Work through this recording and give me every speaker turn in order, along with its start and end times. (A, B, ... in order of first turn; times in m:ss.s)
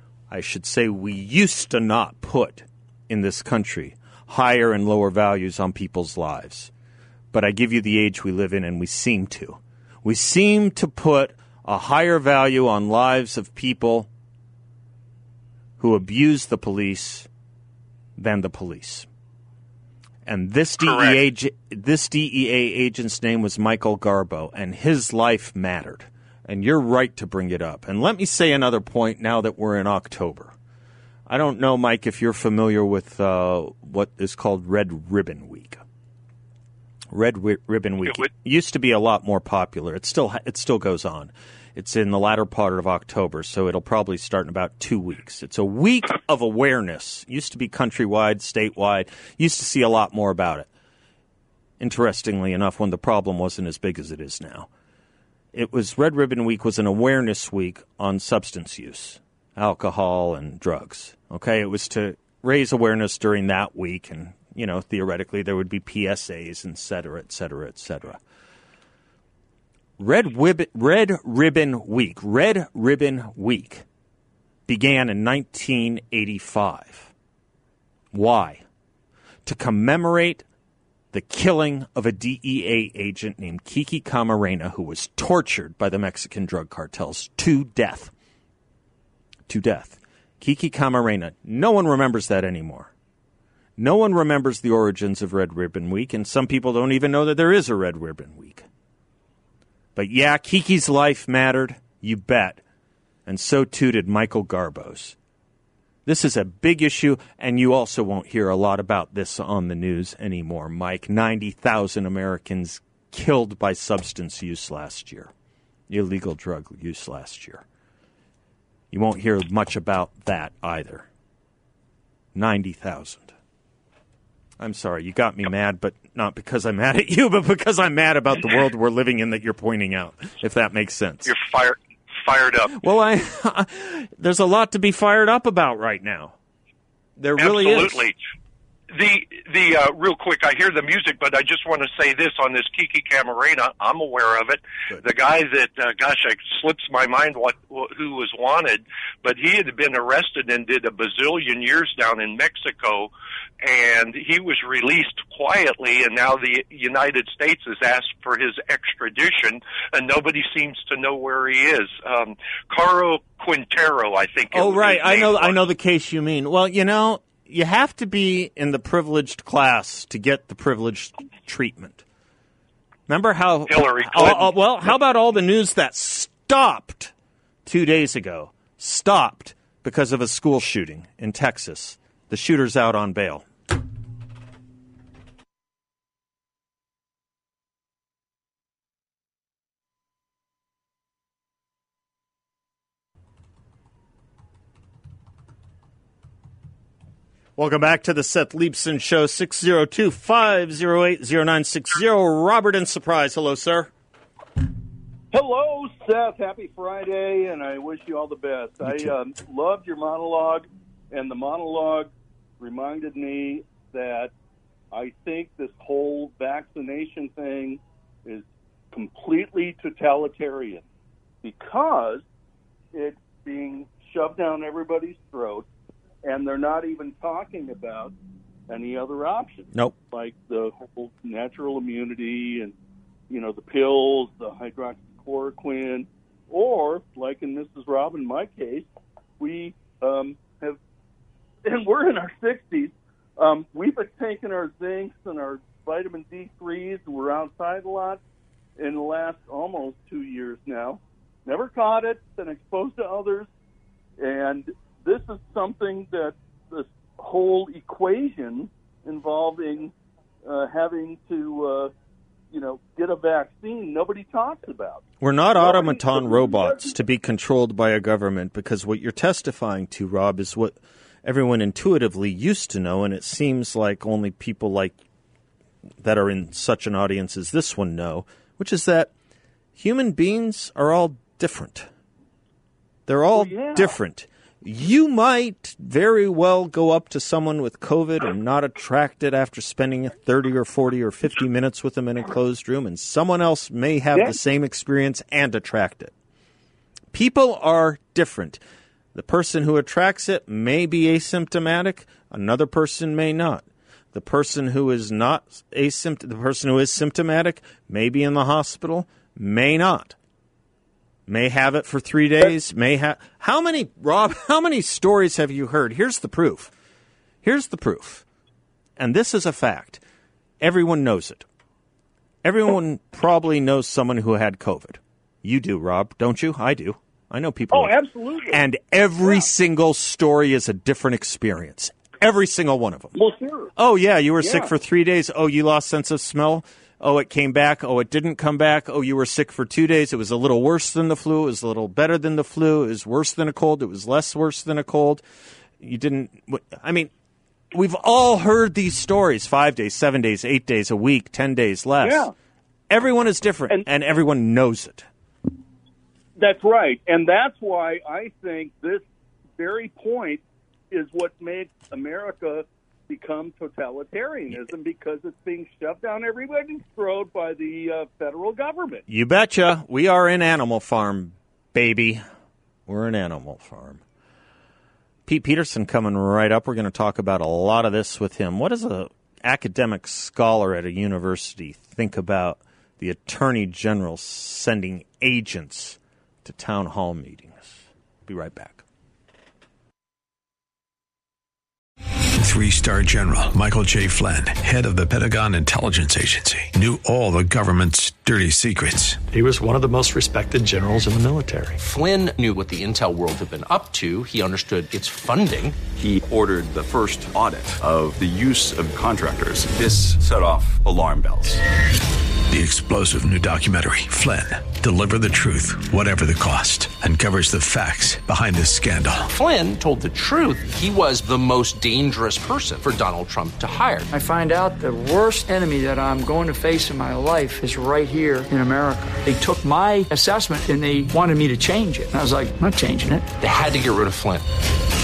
0:00.3-0:06.7 A
0:07.3-0:14.1 A
0:15.8-0:17.3 A
0:18.2-0:19.1 A
0:20.2-0:30.5 A
0:20.8-0:21.2 B
0:31.3-0:35.8 A
0:37.1-0:50.7 A
0:51.8-0:54.7 A
0:55.5-1:08.2 A
1:10.0-1:13.8 A
1:14.7-1:17.1 A
1:18.1-1:18.6 A
1:19.4-1:20.4 A
1:21.1-1:28.1 A
1:29.5-1:32.9 A
1:33.8-1:38.7 A
1:40.0-1:42.6 A
1:43.2-1:45.2 A
1:46.0-1:55.3 A
1:55.9-1:57.6 A
1:58.9-2:01.1 A
2:02.3-2:03.3 A
2:04.6-2:11.3 A
2:11.2-2:12.7 B
2:12.7-2:16.4 A
2:17.2-2:18.1 A
2:17.4-2:18.2 B
2:18.9-2:33.1 B
2:33.6-2:45.6 B
2:44.5-2:52.0 A
2:53.1-2:57.1 A
2:53.7-2:54.5 B
2:57.6-3:03.5 A
3:17.6-3:23.9 A
3:25.3-3:34.3 C
3:28.8-3:29.1 A
3:34.9-3:40.8 C
3:41.4-3:42.2 C
3:42.9-3:45.7 C
3:46.2-3:48.1 C
3:48.7-3:52.7 C
3:53.3-3:58.9 C
3:59.4-4:00.8 C
4:01.6-4:08.2 C
4:08.8-4:13.5 C
4:14.2-4:19.9 C
4:20.4-4:21.9 C
4:22.5-4:27.0 C
4:25.2-4:35.0 A
4:36.0-4:39.1 A
4:39.8-4:41.9 A
4:43.1-4:56.1 A
4:43.3-4:44.0 C
4:57.1-4:58.6 A
4:59.1-5:10.2 A
5:11.3-5:16.7 A
5:17.4-5:18.2 A
5:19.0-5:20.0 A
5:20.6-5:21.4 A
5:22.4-5:28.0 A
5:27.7-5:28.6 C
5:28.5-5:33.1 A
5:33.1-5:33.7 C
5:33.8-5:45.2 A
5:34.4-5:34.7 C
5:45.8-5:47.1 A
5:47.7-5:52.3 A
5:52.0-5:52.3 C
5:52.9-5:55.1 A
5:56.4-5:59.0 C
5:59.6-6:09.0 C
6:09.1-6:12.2 A
6:12.9-6:14.0 A
6:15.2-6:28.8 A
6:32.4-6:39.2 D
6:39.3-6:41.8 E
6:41.8-6:45.8 F
6:45.9-6:51.6 G
6:52.5-6:59.3 D
6:59.3-7:04.1 F
7:04.1-7:13.2 H
7:13.4-7:14.4 F